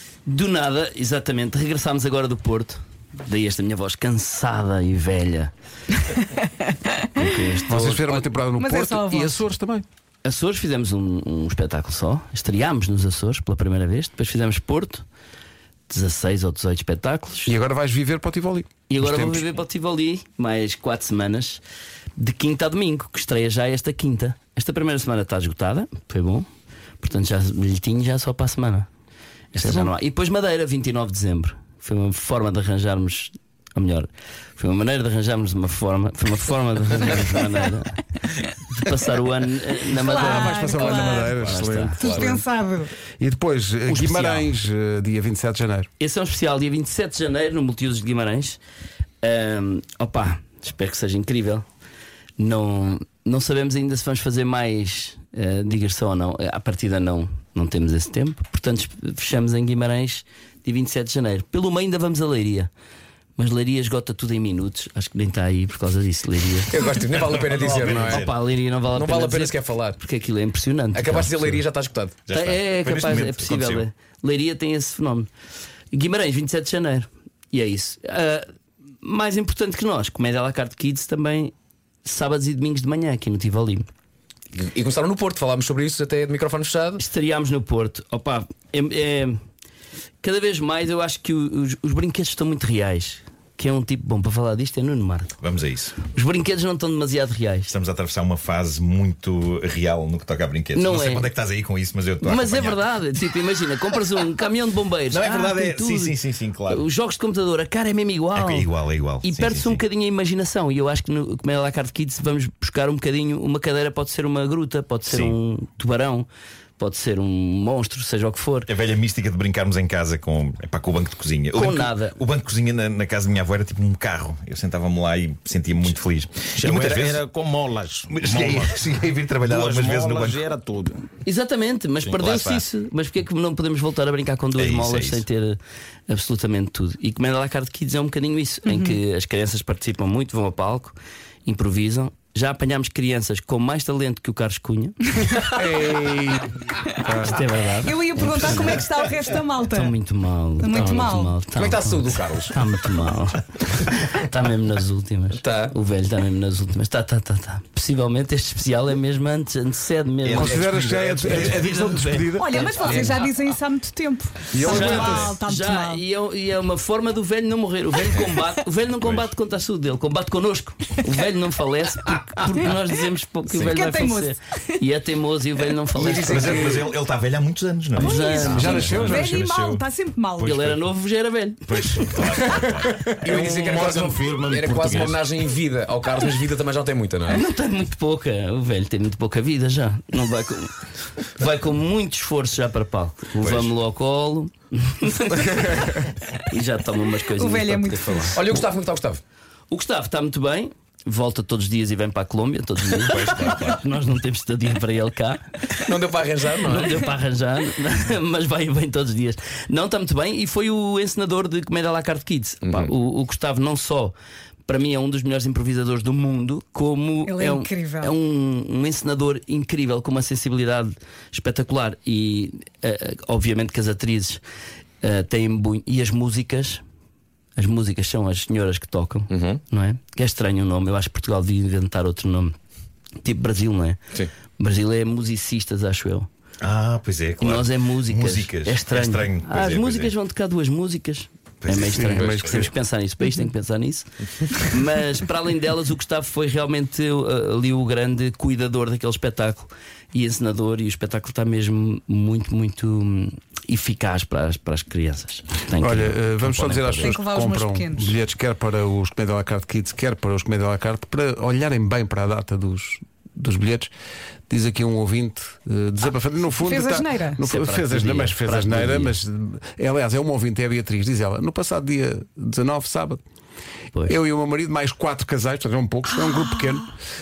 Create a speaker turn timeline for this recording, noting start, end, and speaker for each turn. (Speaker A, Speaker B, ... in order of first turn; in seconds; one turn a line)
Speaker A: 0.2-5.5
Speaker A: 7.1-8.3
Speaker B: 7.5-9.8
Speaker C: 8.6-9.4
Speaker A: 10.2-15.0
Speaker A: 15.9-17.5
Speaker B: 17.4-19.6
Speaker A: 18.9-21.6
Speaker A: 22.2-26.4
Speaker A: 27.0-28.9
Speaker A: 29.5-38.0
Speaker B: 29.6-29.9
Speaker A: 38.7-42.0
Speaker C: 39.9-41.3
Speaker B: 40.0-42.4
Speaker D: 40.8-42.4
Speaker C: 42.0-42.9
Speaker B: 43.2-45.9
Speaker A: 43.9-44.5
Speaker A: 46.0-48.6
Speaker A: 49.2-51.6
Speaker A: 52.4-62.7
Speaker A: 63.4-66.8
Speaker D: 66.7-68.3
Speaker E: 67.0-68.3
Speaker A: 67.7-71.6
Speaker D: 68.8-70.0
Speaker D: 70.9-72.3
Speaker E: 72.3-73.8
Speaker A: 72.3-75.3
Speaker A: 75.9-78.5
Speaker A: 79.0-81.5
Speaker A: 82.0-83.9
Speaker D: 84.5-87.0
Speaker A: 87.0-89.4
Speaker A: 90.2-95.4
Speaker E: 95.4-96.0
Speaker A: 96.1-97.7
Speaker E: 97.7-102.9
Speaker A: 100.7-101.3
Speaker A: 102.2-116.3
Speaker E: 105.1-106.8
Speaker E: 108.3-109.8
Speaker E: 115.0-115.3
Speaker A: 116.8-118.7
Speaker E: 118.7-127.2
Speaker A: 121.5-122.2
Speaker F: 126.6-128.8
Speaker E: 128.1-130.4
Speaker F: 129.4-131.1
Speaker A: 131.2-135.6
Speaker E: 132.2-132.6
Speaker E: 134.6-135.2
Speaker A: 136.1-140.9
Speaker C: 138.7-138.9
Speaker A: 141.4-145.4
Speaker B: 145.6-146.5
Speaker A: 146.9-148.9
Speaker B: 147.0-147.3
Speaker C: 147.8-149.9
Speaker A: 149.7-163.1
Speaker C: 150.6-151.3
Speaker D: 150.7-152.6
Speaker D: 155.3-155.8
Speaker E: 160.2-161.7
Speaker B: 160.3-163.1
Speaker C: 162.4-166.0
Speaker D: 162.8-163.2
Speaker B: 164.5-165.3
Speaker A: 164.6-176.8
Speaker C: 168.1-168.4
Speaker E: 169.0-169.3
Speaker C: 173.5-174.8
Speaker D: 175.9-176.9
Speaker E: 176.0-180.8
Speaker A: 178.0-179.3
Speaker C: 178.0-180.6
Speaker B: 178.5-179.3
Speaker A: 180.4-182.2
Speaker E: 181.7-183.3
Speaker D: 183.2-187.4
Speaker F: 183.3-185.2
Speaker A: 187.3-198.4
Speaker E: 193.4-193.7
Speaker C: 197.3-198.4
Speaker D: 198.3-199.2
Speaker A: 199.7-205.7
Speaker E: 203.1-203.8
Speaker D: 205.8-206.9
Speaker A: 206.6-214.1
Speaker D: 212.6-212.9
Speaker A: 214.7-224.4
Speaker C: 217.2-218.1
Speaker A: 225.0-226.8
Speaker A: 227.6-232.5
Speaker D: 229.3-229.6
Speaker A: 233.2-234.0
Speaker A: 234.6-236.3
Speaker E: 236.6-240.1
Speaker A: 237.4-257.2
Speaker E: 241.6-242.7
Speaker B: 241.8-242.7
Speaker B: 255.8-263.9
Speaker C: 257.0-258.1
Speaker B: 264.5-273.2
Speaker C: 266.6-267.4
Speaker A: 267.4-269.2
Speaker B: 274.1-276.9